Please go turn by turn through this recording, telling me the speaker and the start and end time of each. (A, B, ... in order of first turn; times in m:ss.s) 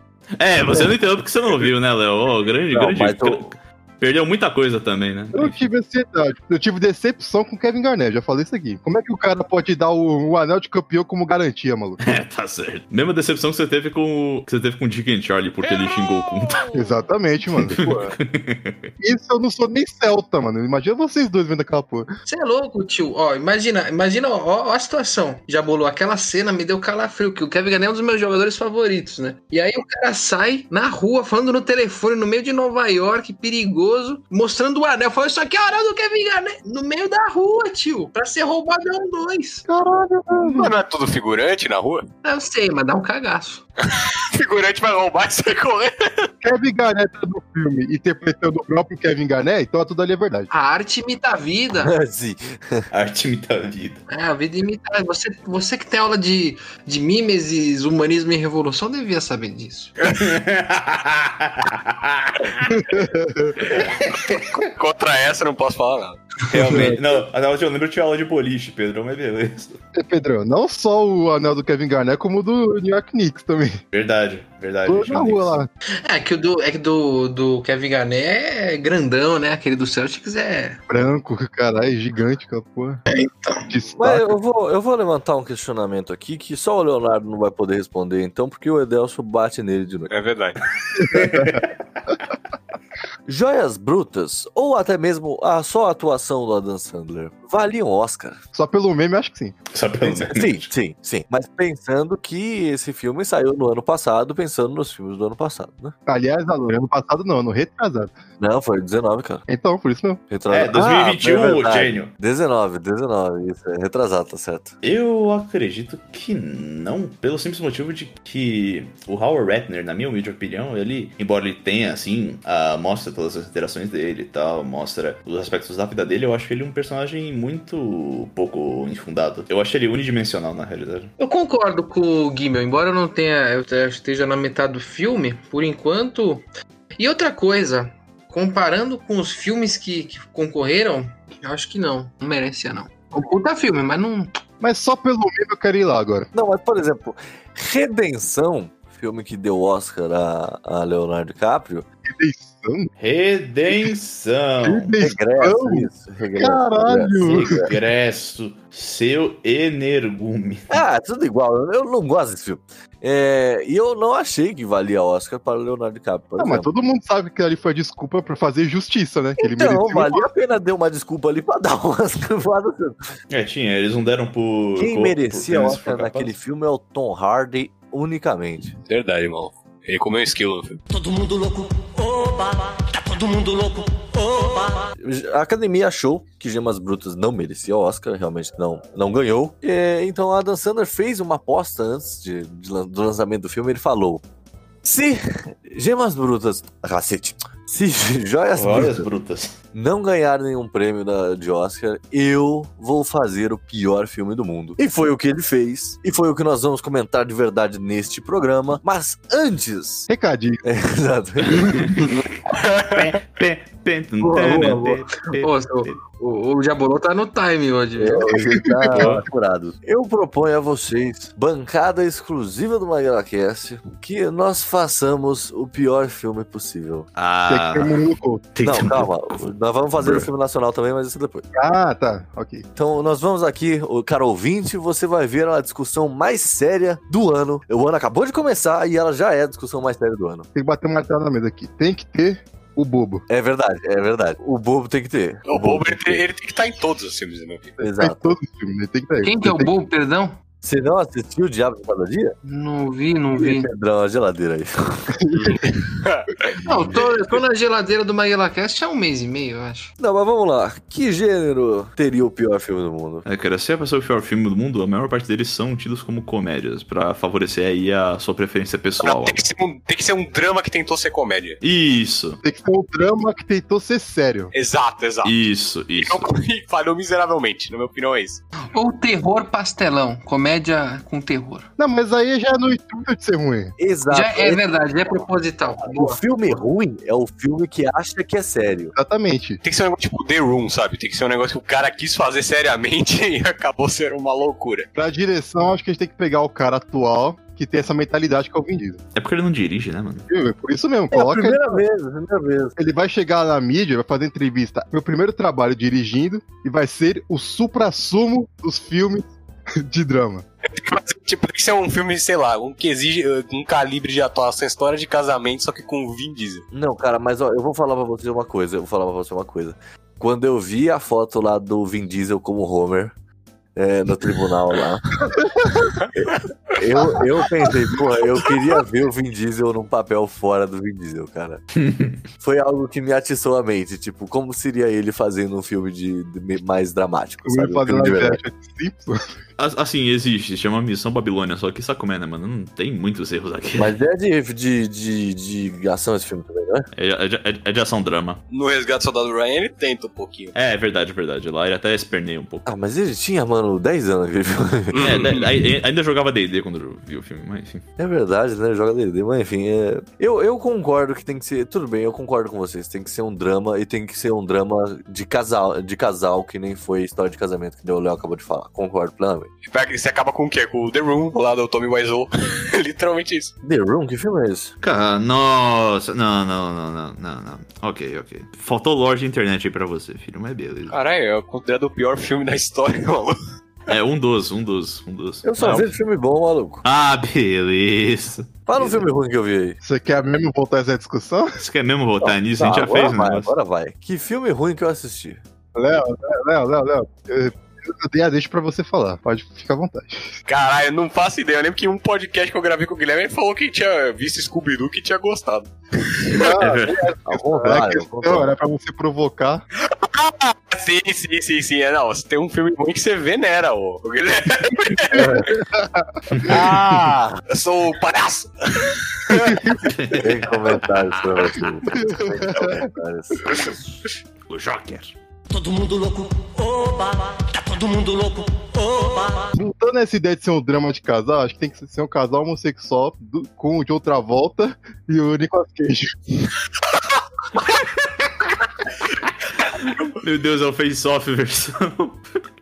0:00.4-0:05.6 A
0:02.7-0:03.5 B
0:05.3-0:12.0 C
0:12.0-0:16.7 A
0:16.7-0:18.0 C
0:17.6-0:18.9 A
0:19.0-0:22.1 C
0:22.2-0:39.6 D
0:39.7-0:40.8 C
0:40.4-0:42.0 E
0:42.2-0:43.6 D
0:43.9-0:46.3 E
0:46.4-0:50.5 C
0:50.5-0:51.9 D
0:51.8-0:52.9 B
0:52.9-0:54.0 A
0:54.1-0:59.9 D
1:00.1-1:02.8 A
1:02.7-1:03.5 C
1:03.6-1:06.2 E
1:03.7-1:04.5 A
1:06.5-1:09.8 A
1:09.9-1:13.8 C
1:13.9-1:15.6 A
1:14.8-1:15.7 C
1:16.0-1:20.8 D
1:20.9-1:23.0 C
1:23.1-1:23.7 D
1:23.7-1:24.3 C
1:23.9-1:30.1 B
1:30.1-1:30.6 E
1:31.0-1:31.6 C
1:31.1-1:31.6 A
1:33.2-1:38.4 B
1:38.5-1:39.6 C
1:39.7-1:40.7 A
1:40.1-1:45.9 B
1:46.1-1:48.1 C
1:48.4-1:49.4 B
1:49.5-1:50.2 C
1:50.3-1:54.7 B
1:50.5-1:52.1 A
1:54.8-2:11.1 A
2:11.2-2:16.4 D
2:17.0-2:24.4 D
2:24.6-2:26.3 C
2:26.3-2:31.8 B
2:32.1-2:32.9 C
2:33.0-2:34.9 A
2:34.6-2:37.7 C
2:35.0-2:37.7 B
2:37.2-2:40.8 A
2:40.7-2:46.7 B
2:46.4-2:50.2 C
2:49.4-2:53.0 B
2:53.3-2:56.3 A
2:54.8-2:58.8 B
2:58.8-3:00.8 E
3:00.9-3:04.9 F
3:05.0-3:14.2 B
3:14.8-3:19.1 B
3:18.6-3:19.5 A
3:19.7-3:30.1 B
3:30.1-3:30.6 C
3:30.6-3:31.9 B
3:31.4-3:32.1 A
3:32.5-3:33.1 E
3:32.9-3:36.0 A
3:34.2-3:35.0 B
3:35.4-3:38.3 D
3:38.0-3:47.1 B
3:38.5-3:39.2 C
3:38.9-3:39.2 A
3:47.2-3:48.0 A
3:47.5-3:48.5 C
3:48.5-3:50.3 A
3:48.6-3:51.4 B
3:51.5-3:52.7 C
3:52.8-4:00.5 B
4:00.5-4:03.2 C
4:03.3-4:06.2 B
4:05.4-4:07.7 E
4:07.8-4:08.4 B
4:07.9-4:09.7 C
4:09.2-4:10.4 D
4:10.6-4:12.4 B
4:12.4-4:13.7 D
4:13.3-4:15.1 B
4:15.2-4:15.6 C
4:15.4-4:17.4 E
4:16.6-4:17.0 B
4:16.6-4:19.9 D
4:20.0-4:23.3 B
4:23.3-4:29.4 A
4:29.0-4:31.6 E
4:31.6-4:32.4 A
4:32.4-4:34.5 C
4:34.5-4:35.3 E
4:35.2-4:36.3 A
4:36.0-4:38.4 E
4:38.7-4:41.7 D
4:41.8-4:43.7 C
4:43.8-4:44.6 B
4:44.1-4:46.2 D
4:45.8-4:48.9 B
4:48.9-4:49.6 C
4:49.6-4:54.9 E
4:55.0-4:59.0 C
4:59.1-5:00.2 A
5:00.3-5:01.8 C
5:01.1-5:02.8 B
5:02.8-5:09.3 C
5:09.8-5:10.4 C
5:10.7-5:16.6 E
5:16.7-5:23.1 B
5:23.8-5:25.1 B
5:26.2-5:31.6 B
5:31.7-5:32.2 A
5:32.4-5:38.4 B
5:37.4-5:39.3 C
5:39.6-5:43.9 A
5:43.8-5:46.9 B
5:46.9-5:48.4 A
5:48.5-5:50.5 E
5:50.5-5:52.7 A
5:52.6-5:55.1 B
5:54.9-5:55.5 E
5:55.0-5:57.8 A
5:58.0-6:09.5 B
6:09.7-6:13.5 E
6:13.6-6:14.7 B
6:14.8-6:20.9 A
6:20.9-6:23.4 E
6:23.9-6:25.9 A
6:25.4-6:26.8 B
6:26.8-6:29.0 A
6:28.7-6:29.8 B
6:29.8-6:31.6 C
6:31.6-6:33.5 A
6:32.2-6:35.4 B
6:35.7-6:40.4 C
6:40.5-6:46.4 E
6:46.3-6:49.6 C
6:46.6-6:47.0 A
6:47.2-6:48.5 B
6:50.0-6:55.5 E
6:55.1-6:55.5 B
6:55.1-6:56.2 C
6:56.3-6:56.8 A
6:56.5-6:57.4 B
6:56.7-6:59.7 E
6:59.3-6:59.8 C
6:59.9-7:01.7 A
7:00.2-7:03.5 B
7:01.8-7:02.9 C
7:04.5-7:05.1 A
7:05.5-7:09.6 F
7:09.6-7:16.5 C
7:19.8-7:22.3 A